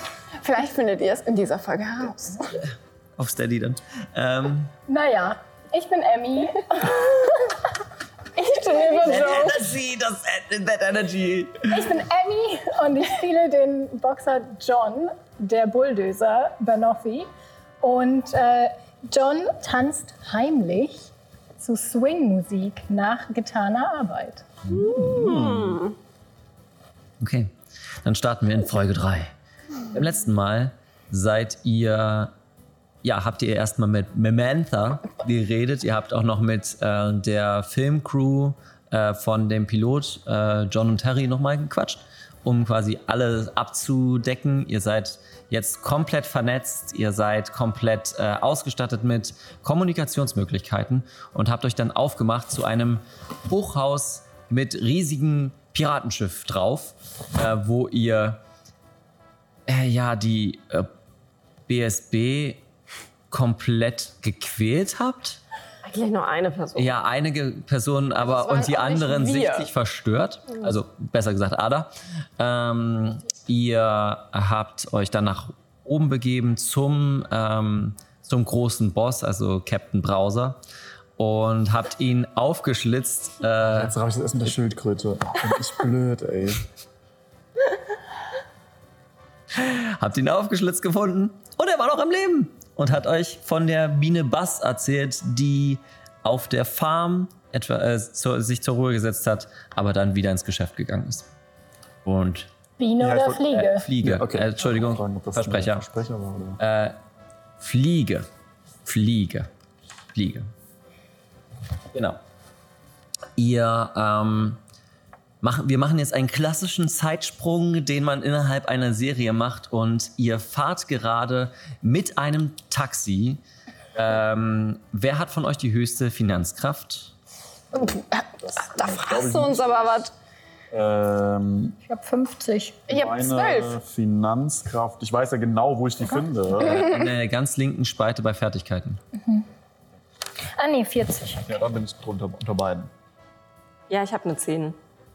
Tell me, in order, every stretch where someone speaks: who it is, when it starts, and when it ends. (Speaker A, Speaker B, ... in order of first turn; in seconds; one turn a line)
Speaker A: 0.4-2.6
Speaker B: 3.2-4.7
Speaker C: 4.9-7.5
Speaker A: 8.4-9.7
Speaker C: 8.9-9.4
Speaker B: 9.0-11.9
Speaker C: 11.7-17.3
Speaker C: 17.8-24.5
Speaker B: 24.7-25.7
Speaker D: 24.7-25.9
Speaker B: 27.2-27.5
Speaker B: 28.0-29.3
Speaker B: 29.9-32.3
Speaker B: 33.0-58.4
Speaker B: 59.7-60.9
Speaker B: 61.7-62.6
Speaker B: 63.3-65.4
Speaker D: 65.8-66.9
Speaker B: 66.8-80.6
Speaker A: 68.2-69.7
Speaker B: 81.2-83.9
Speaker E: 83.7-86.7
Speaker B: 89.5-101.3
Speaker B: 102.0-102.5
Speaker C: 102.8-103.9
Speaker E: 103.0-106.6
Speaker B: 103.5-105.8
Speaker B: 106.6-107.0
Speaker B: 107.6-108.3
Speaker B: 108.8-109.5
Speaker B: 110.1-110.5
Speaker B: 111.9-112.2
Speaker B: 113.4-114.6
Speaker B: 115.4-123.4
Speaker B: 123.9-127.1
Speaker E: 127.7-130.1
Speaker A: 128.7-130.1
Speaker E: 130.7-131.8
Speaker C: 131.8-132.8
Speaker E: 132.9-136.8
Speaker A: 132.9-133.8
Speaker B: 136.6-139.0
Speaker A: 136.8-137.0
Speaker C: 139.2-139.5
Speaker C: 140.5-141.6
Speaker E: 141.5-142.9
Speaker D: 143.9-144.8